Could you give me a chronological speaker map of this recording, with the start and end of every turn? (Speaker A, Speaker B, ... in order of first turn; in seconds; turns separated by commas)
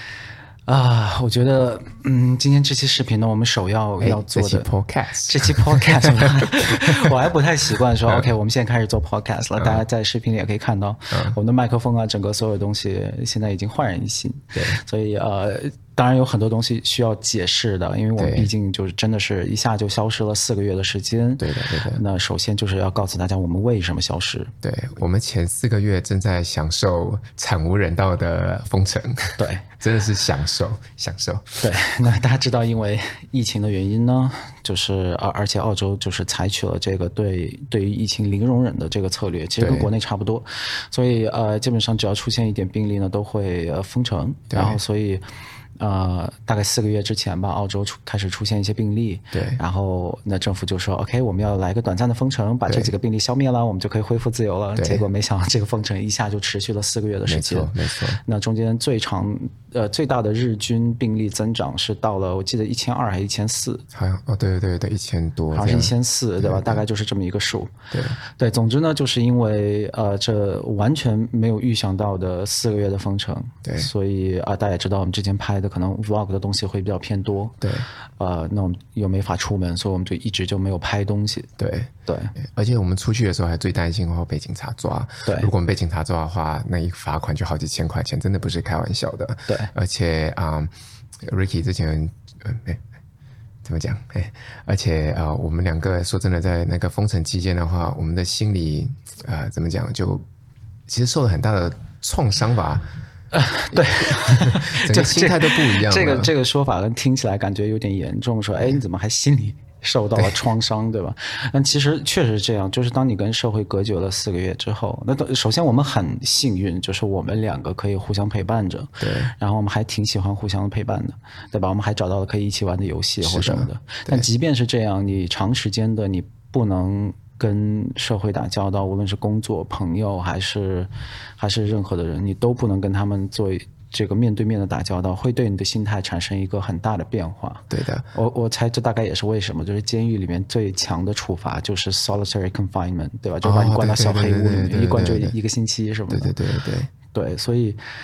Speaker A: 0.7-4.7, Speaker B: 4.0-7.1, Speaker A: 5.2-24.5, Speaker B: 9.6-9.8, Speaker B: 11.1-11.4, Speaker B: 14.5-14.8, Speaker B: 18.2-18.5, Speaker B: 21.4-22.0, Speaker B: 24.6-31.6, Speaker A: 29.4-29.7, Speaker A: 31.6-45.2, Speaker B: 39.6-39.9, Speaker B: 44.5-44.8, Speaker A: 45.8-63.8, Speaker B: 49.3-49.6, Speaker B: 52.7-52.9, Speaker B: 54.8-55.0, Speaker B: 57.3-58.2, Speaker B: 63.9-66.8, Speaker A: 65.5-77.7, Speaker B: 67.9-68.2, Speaker B: 73.6-73.9, Speaker A: 78.2-81.5, Speaker B: 81.6-92.8, Speaker A: 82.1-82.3, Speaker B: 93.6-100.2, Speaker B: 100.9-102.8, Speaker A: 103.3-146.3, Speaker B: 103.7-106.3, Speaker B: 119.0-119.3, Speaker B: 123.2-124.2, Speaker B: 137.7-138.1, Speaker B: 143.4-145.3, Speaker B: 146.1-146.9, Speaker A: 147.1-147.8